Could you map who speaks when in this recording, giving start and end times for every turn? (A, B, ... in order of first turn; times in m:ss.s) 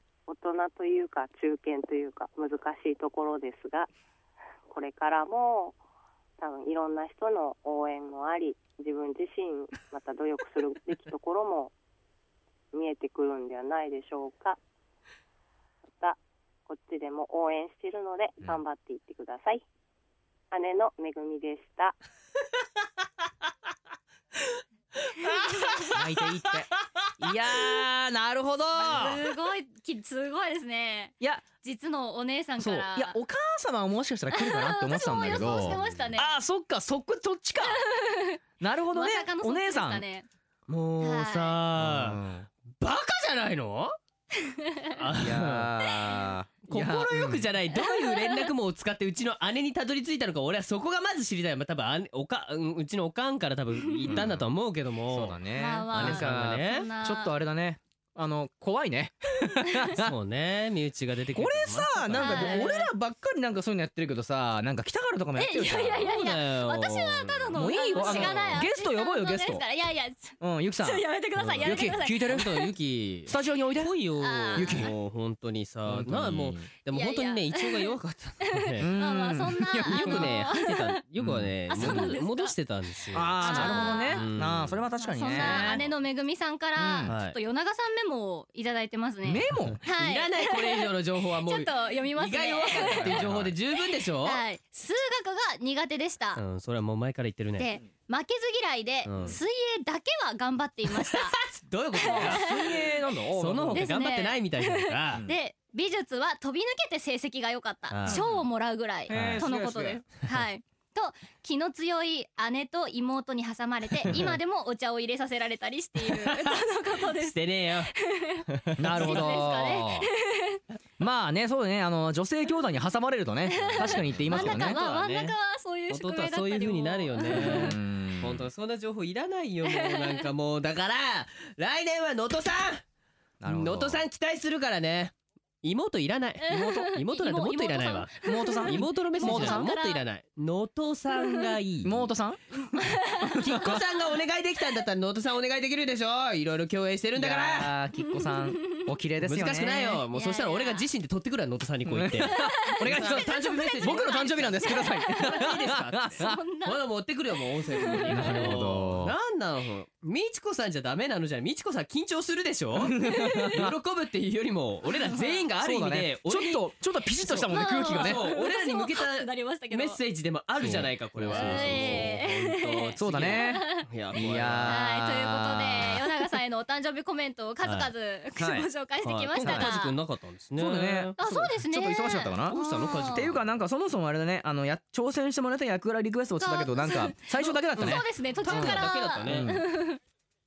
0:00.3-0:03.9 A
0:04.7-0:05.8 A
0:06.4-0:11.7 A
0:12.7-0:14.6 A
0:16.0-0:19.6 A
0:20.5-0:22.0 A
0:25.7-0:26.0 B
0:25.9-0:26.7 C
0:27.2-0:29.3 C
0:28.8-0:33.2 D
0:32.6-0:37.8 C
0:34.3-0:36.4 D
0:35.4-0:36.0 B
0:37.7-0:38.4 D
0:38.6-0:40.0 C
0:38.9-0:40.3 D
0:40.7-0:42.2 B
0:41.0-0:41.6 D
0:41.8-0:42.5 C
0:42.8-0:43.9 B
0:44.4-0:44.9 D
0:44.9-0:45.7 B
0:45.2-0:47.5 C
0:46.7-0:56.8 B
0:47.7-0:48.5 D
0:54.1-0:54.4 C
0:55.1-1:00.1 C
0:55.6-0:57.3 D
1:00.0-1:02.8 B
1:01.3-1:06.2 C
1:02.2-1:02.8 D
1:05.4-1:12.5 D
1:06.1-1:08.6 B
1:07.5-1:09.6 C
1:10.4-1:11.1 C
1:11.4-1:18.9 B
1:11.6-1:12.6 C
1:13.3-1:14.0 C
1:14.2-1:14.9 D
1:14.5-1:14.9 C
1:15.8-1:16.7 C
1:16.9-1:17.9 D
1:18.5-1:21.0 D
1:18.8-1:20.4 C
1:19.9-1:25.9 B
1:21.2-1:22.1 C
1:21.7-1:22.5 D
1:23.1-1:25.9 C
1:23.4-1:24.2 D
1:25.0-1:33.2 D
1:26.8-1:27.1 C
1:27.0-1:27.4 B
1:29.2-1:29.8 C
1:29.7-1:34.4 B
1:32.8-1:33.5 C
1:34.2-1:36.4 D
1:36.4-1:37.7 B
1:37.6-1:41.4 D
1:39.0-1:39.4 B
1:40.9-1:42.6 B
1:42.0-1:42.5 D
1:42.0-1:43.8 C
1:43.4-1:45.2 B
1:43.7-2:00.6 D
1:47.9-1:48.3 B
1:49.1-1:50.0 C
1:49.1-1:49.4 B
1:54.0-1:54.3 C
1:54.0-1:54.3 B
1:56.0-1:56.6 B
1:57.2-1:57.9 B
1:58.5-1:59.3 B
1:58.8-2:00.1 C
2:01.0-2:04.8 C
2:03.5-2:07.8 D
2:03.6-2:05.3 B
2:05.9-2:12.8 B
2:07.3-2:08.5 C
2:09.6-2:10.2 D
2:13.4-2:14.0 C
2:13.5-2:22.1 B
2:16.5-2:17.0 C
2:16.5-2:20.0 D
2:18.2-2:19.7 C
2:21.8-2:22.6 C
2:22.7-2:23.7 D
2:23.3-2:23.8 C
2:23.4-2:27.7 B
2:27.2-2:30.0 C
2:28.4-2:28.8 D
2:29.2-2:46.6 B
2:30.1-2:30.8 D
2:31.8-2:36.4 C
2:32.3-2:36.8 D
2:37.8-2:38.5 D
2:38.0-2:39.1 C
2:42.8-2:43.7 C
2:45.6-2:48.3 C
2:47.3-2:54.8 B
2:47.5-2:50.0 D
2:50.6-2:52.2 C
2:51.2-2:53.8 D
2:53.0-2:56.2 C
2:54.7-3:00.0 D
2:57.6-2:57.9 B
2:58.4-2:58.7 C
2:59.0-3:01.2 B
2:59.4-2:59.7 C
3:00.6-3:09.7 C
3:01.2-3:03.2 D
3:02.5-3:03.4 B
3:06.4-3:10.0 D
3:07.8-3:09.5 B